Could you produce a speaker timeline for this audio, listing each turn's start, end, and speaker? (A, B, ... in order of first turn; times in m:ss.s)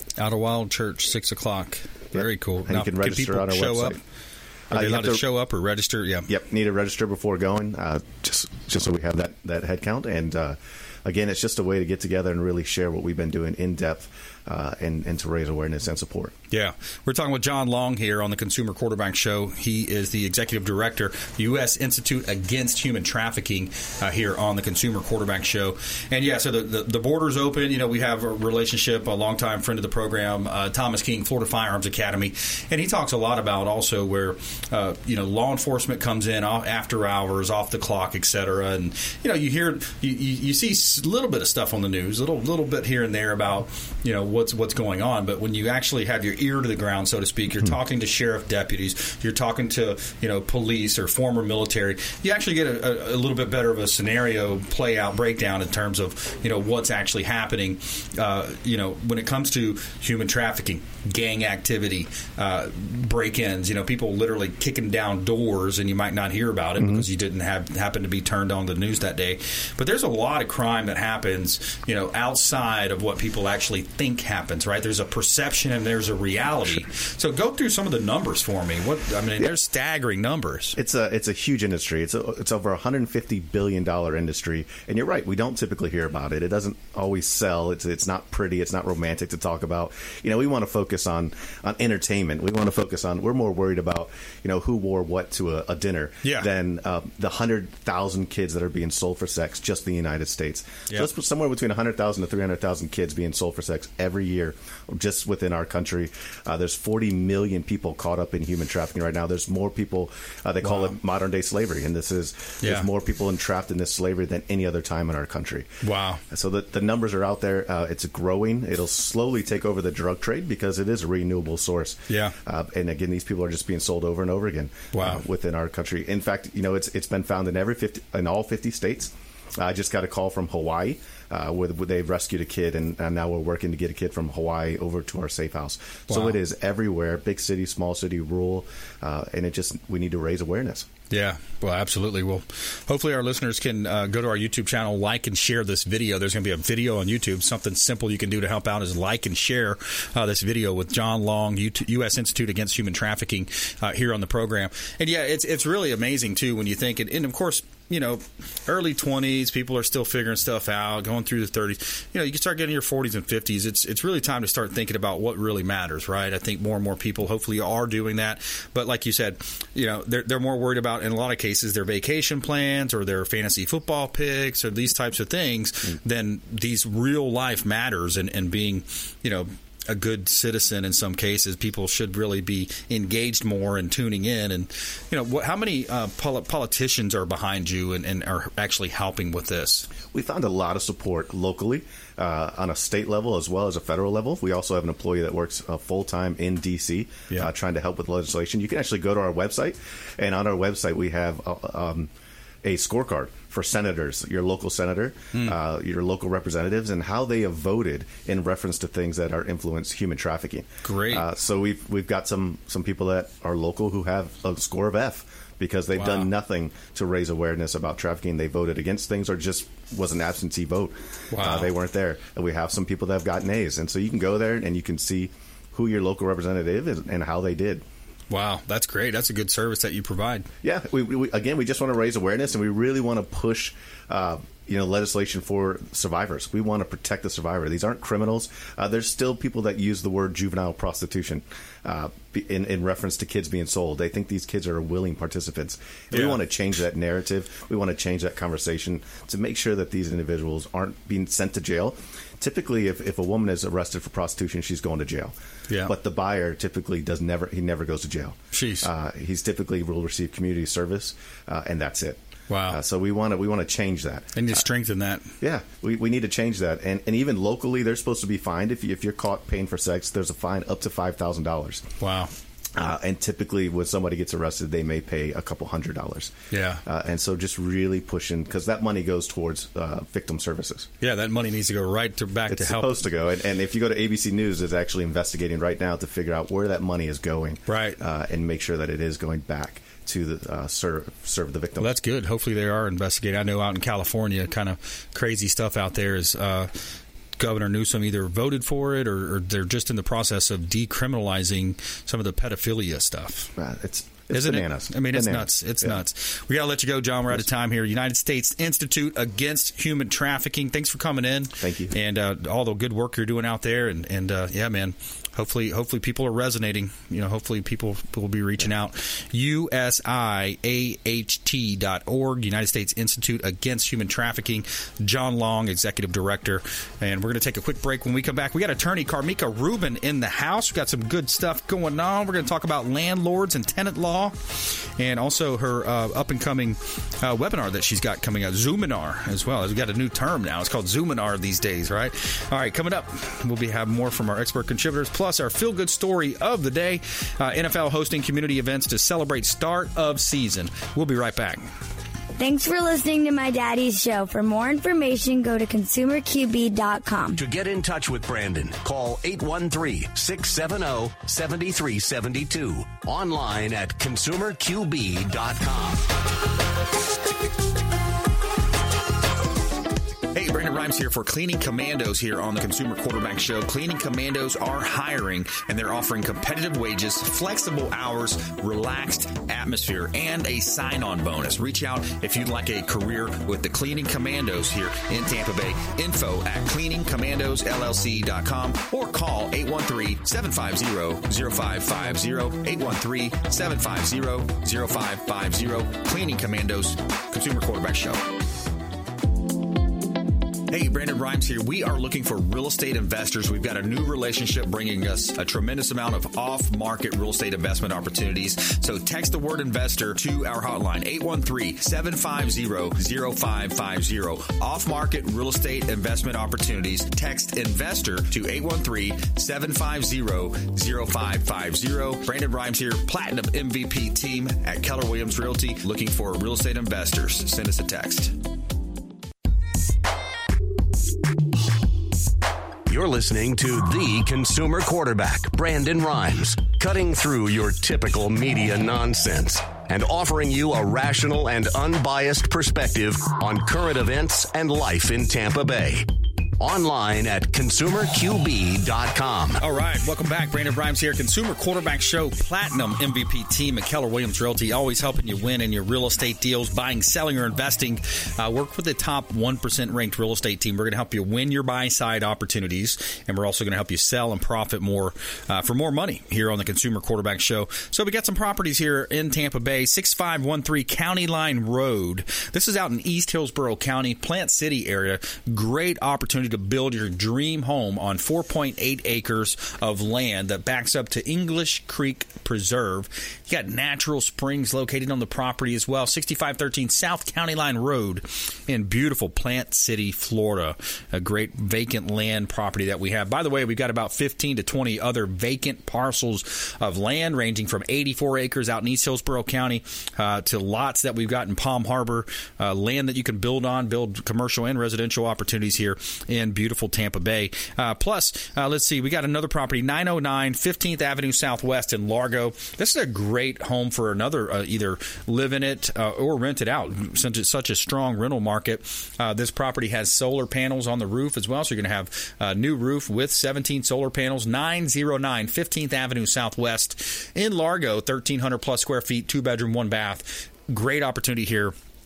0:00.2-0:04.0 A
0:02.1-0:04.0 B
0:04.7-0:05.2 B
0:04.7-0:06.3 A
0:06.3-0:16.3 B
0:16.5-1:20.8 A
1:06.8-1:07.0 B
1:20.8-1:55.7 B
1:36.2-1:36.5 A
1:50.6-1:50.9 A
1:55.8-1:56.2 A
1:56.3-2:20.9 B
2:02.1-2:02.3 A
2:04.9-2:05.2 A
2:16.1-2:16.4 A
2:21.1-3:09.9 A
3:10.1-3:22.1 B
3:22.6-3:47.8 B
3:30.8-3:31.2 A
3:35.9-3:36.3 A
3:41.3-3:41.7 A
3:48.3-3:50.5 A
3:50.6-4:15.3 B
4:06.1-4:06.4 A
4:15.7-4:15.9 A
4:15.8-4:24.6 B
4:18.5-4:18.9 A
4:22.5-4:22.8 A
4:24.3-4:25.3 A
4:25.4-4:31.9 B
4:32.0-4:32.3 A
4:32.8-4:36.3 B
4:36.5-4:36.8 A
4:36.8-4:40.9 B
4:41.0-4:43.0 A
4:42.5-4:51.9 B
4:47.7-4:48.0 A
4:51.8-4:56.7 A
4:57.4-5:03.5 A
5:03.6-5:06.0 B
5:04.3-5:51.6 A
5:11.6-5:11.9 B
5:52.4-5:57.4 C
5:57.4-6:06.0 D
6:10.3-6:38.2 A
6:40.7-7:08.4 A
7:12.9-7:26.1 D
7:26.6-7:29.6 D
7:29.6-8:51.7 A